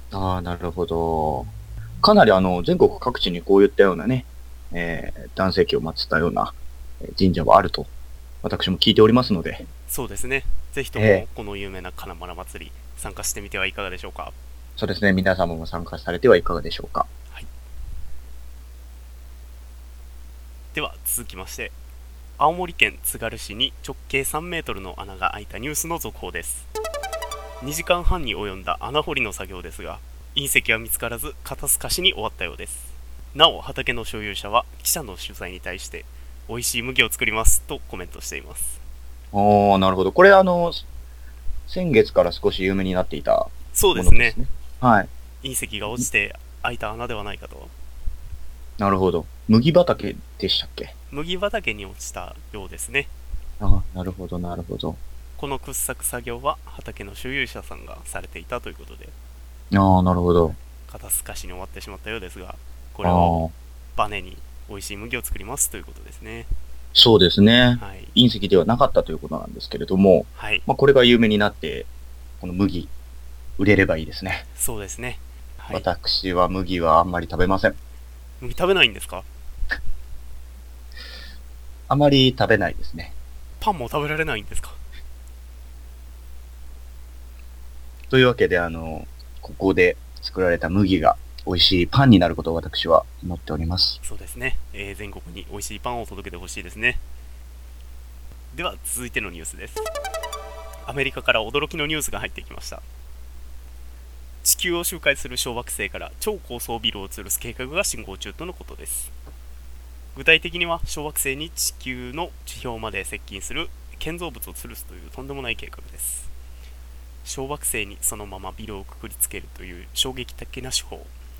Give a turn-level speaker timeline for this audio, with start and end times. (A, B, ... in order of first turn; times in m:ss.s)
0:00.1-0:01.5 A
0:02.0-0:07.9 A
0:08.4-0:09.6 A
0:09.9-0:14.4 B
0:11.0-0:11.3 A
0:14.8-0:17.1 A
0:20.7-0:21.8 B
0:22.4-0:26.7 B
0:27.6-0:38.8 B
0:39.3-0:40.8 A
0:41.7-0:45.1 A
0:43.7-0:44.4 B
0:45.4-0:47.7 B
0:48.8-0:50.9 A
0:51.1-0:53.1 B
0:53.6-0:55.0 A
0:55.4-0:59.1 B
0:59.7-1:00.6 A
1:00.9-1:03.4 B
1:03.0-1:03.5 A
1:04.0-1:06.5 B
1:07.0-1:11.9 A
1:07.8-1:08.1 B
1:10.4-1:10.6 B
1:12.4-1:12.9 A
1:13.6-1:14.4 A
1:14.6-1:15.9 B
1:15.7-1:17.8 A
1:18.4-1:19.3 B
1:21.9-1:23.1 A
1:23.6-1:24.8 B
1:28.1-1:34.0 A
1:34.0-1:37.0 B
1:38.5-1:39.9 B
1:40.9-1:42.8 B
1:44.4-1:49.1 B
1:50.1-1:56.3 B
1:57.2-2:01.1 B